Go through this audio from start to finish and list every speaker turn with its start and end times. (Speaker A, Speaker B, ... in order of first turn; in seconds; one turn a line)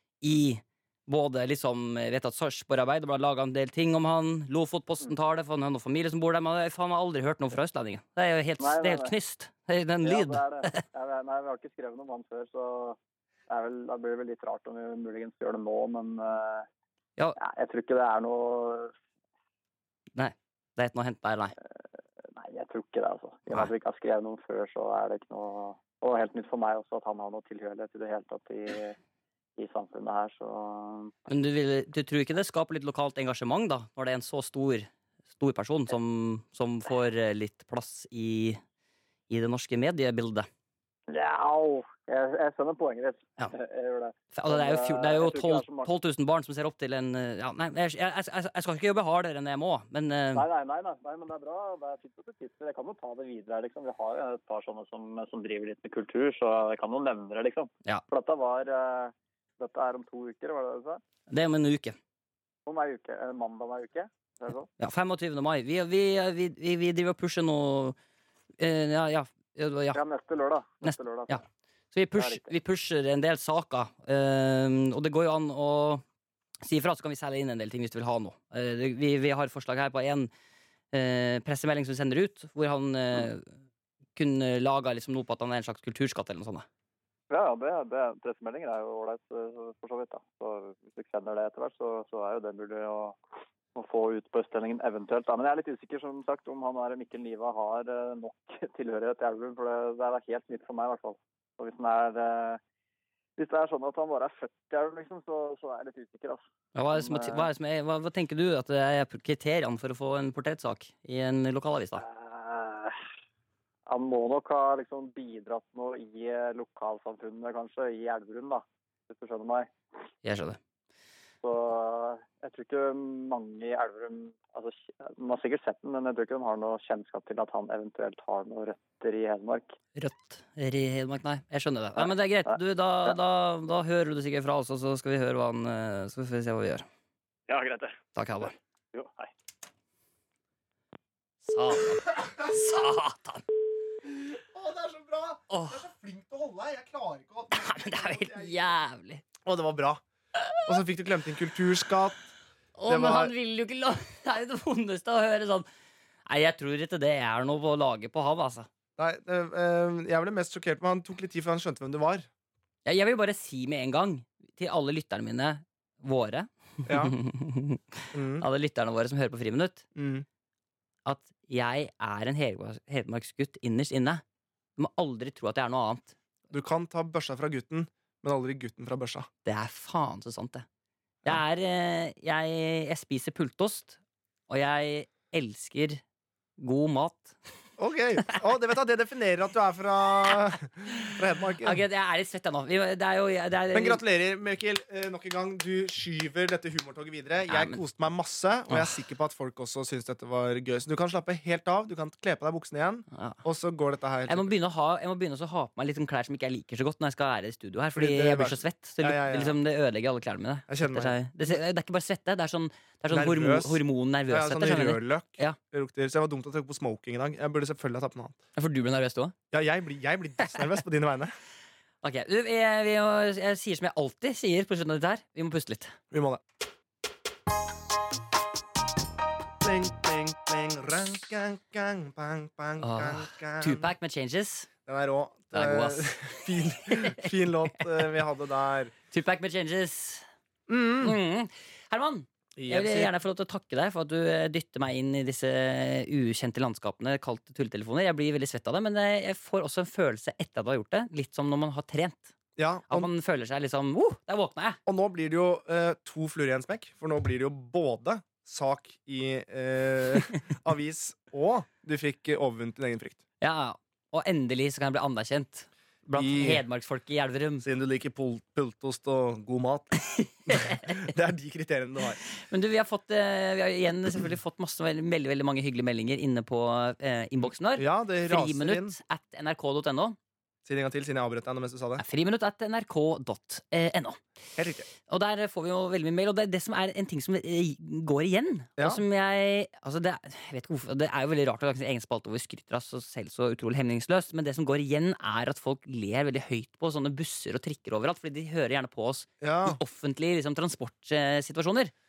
Speaker A: 0.2-10.8
Speaker B: 8.6-9.1
Speaker B: 10.0-13.0
Speaker B: 13.5-16.7
Speaker B: 17.4-18.9
Speaker A: 20.2-21.5
Speaker B: 21.8-29.0
Speaker B: 29.6-31.3
Speaker A: 31.3-38.6
Speaker A: 39.3-40.5
Speaker B: 41.1-45.9
Speaker A: 44.3-50.5
Speaker B: 50.3-61.0
Speaker A: 61.3-62.0
Speaker B: 62.7-64.7
Speaker A: 64.8-68.0
Speaker A: 68.6-70.0
Speaker B: 69.9-71.4
Speaker A: 70.8-76.0
Speaker B: 72.2-72.5
Speaker A: 76.6-80.3
Speaker A: 80.9-83.5
Speaker A: 84.2-86.7
Speaker B: 87.3-93.2
Speaker B: 93.8-102.6
Speaker B: 103.4-107.5
Speaker A: 106.8-112.0
Speaker B: 112.0-113.0
Speaker B: 113.9-119.7
Speaker A: 120.2-120.6
Speaker B: 121.4-129.7
Speaker A: 129.9-136.8
Speaker B: 137.5-138.0
Speaker A: 138.2-138.5
Speaker B: 138.9-139.3
Speaker A: 141.4-143.4
Speaker C: 142.2-142.5
Speaker C: 144.2-148.7
Speaker A: 145.5-145.8
Speaker A: 147.5-149.2
Speaker C: 149.4-150.0
Speaker C: 150.7-152.3
Speaker A: 152.8-155.7
Speaker C: 152.9-153.3
Speaker A: 156.3-158.7
Speaker C: 159.0-162.3
Speaker A: 162.8-169.8
Speaker C: 166.9-167.2
Speaker C: 168.1-168.5
Speaker C: 169.9-170.3
Speaker A: 171.1-174.2
Speaker A: 174.8-176.2
Speaker C: 176.5-179.3
Speaker A: 179.4-180.7
Speaker A: 181.2-184.0
Speaker A: 184.5-186.0
Speaker A: 186.6-187.4
Speaker C: 187.8-191.8
Speaker A: 191.6-194.0
Speaker C: 193.7-204.5
Speaker A: 197.5-197.8
Speaker A: 203.1-203.4
Speaker A: 204.3-215.6
Speaker C: 207.9-209.6
Speaker C: 210.7-211.2
Speaker C: 213.1-218.4
Speaker A: 218.6-219.3
Speaker C: 219.5-221.3
Speaker A: 222.0-226.0
Speaker C: 226.1-226.4
Speaker C: 229.6-233.9
Speaker A: 232.8-234.7
Speaker C: 234.9-238.9
Speaker A: 235.5-237.3
Speaker A: 239.1-240.3
Speaker C: 240.7-241.2
Speaker A: 241.0-252.3
Speaker C: 242.6-243.1
Speaker C: 252.6-253.1
Speaker A: 252.9-254.8
Speaker C: 254.9-263.2
Speaker A: 263.4-267.6
Speaker C: 266.1-266.6
Speaker C: 267.6-269.9
Speaker A: 270.0-271.0
Speaker C: 270.5-272.2
Speaker A: 272.4-280.2
Speaker C: 277.8-279.0
Speaker C: 280.6-282.0
Speaker A: 282.0-284.2
Speaker C: 284.6-284.9
Speaker A: 285.0-301.9
Speaker C: 288.8-289.0
Speaker C: 299.4-299.8